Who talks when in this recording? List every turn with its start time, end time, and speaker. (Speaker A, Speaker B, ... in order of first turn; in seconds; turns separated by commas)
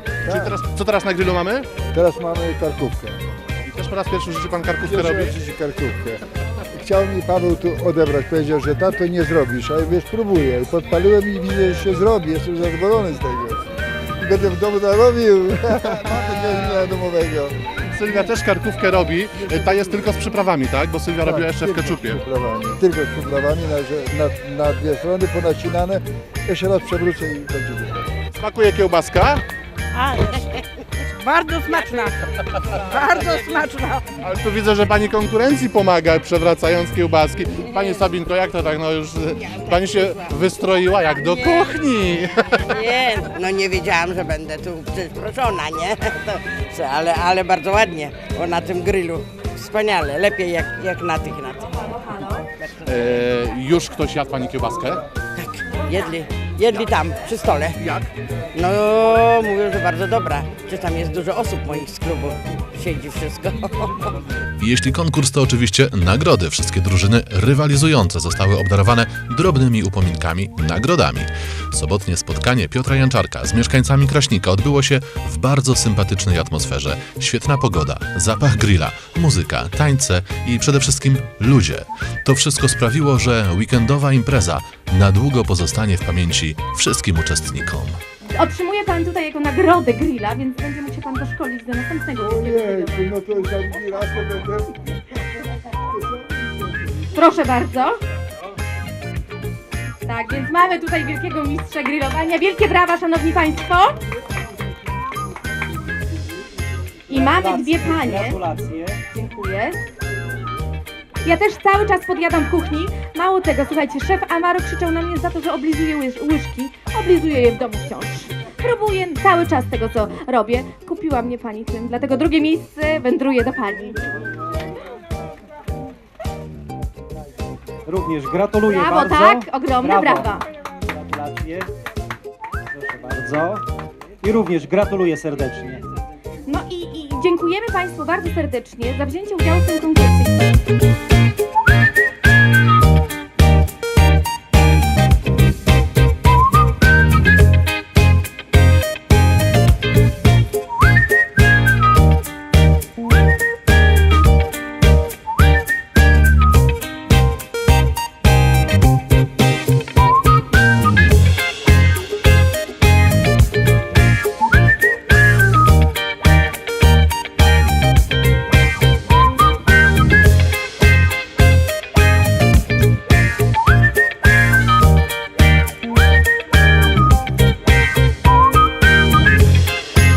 Speaker A: 0.2-0.6, Speaker B: 0.2-1.7, Speaker A: 1.9-3.3, Speaker B: 3.6-5.4, Speaker A: 4.8-6.2, Speaker A: 6.7-13.7, Speaker A: 14.2-17.6, Speaker B: 17.9-22.2, Speaker A: 21.2-28.1, Speaker B: 28.3-29.4, Speaker C: 30.1-30.6, Speaker B: 34.2-42.8, Speaker C: 37.6-38.0, Speaker C: 39.4-40.3, Speaker C: 42.6-51.8, Speaker D: 51.9-52.4, Speaker C: 52.6-53.3, Speaker B: 52.8-55.0, Speaker C: 55.3-57.8, Speaker B: 57.8-58.1, Speaker C: 58.5-64.1, Speaker E: 64.6-88.0, Speaker D: 88.3-93.1, Speaker A: 92.2-95.0, Speaker A: 95.9-97.1, Speaker D: 97.1-98.0, Speaker D: 100.0-104.0, Speaker D: 107.1-108.4, Speaker F: 107.1-109.0, Speaker D: 109.1-109.8, Speaker D: 111.2-124.0, Speaker F: 127.9-130.2, Speaker D: 128.7-130.4, Speaker F: 130.9-131.7, Speaker F: 132.7-133.6, Speaker F: 134.2-135.8, Speaker D: 136.4-140.4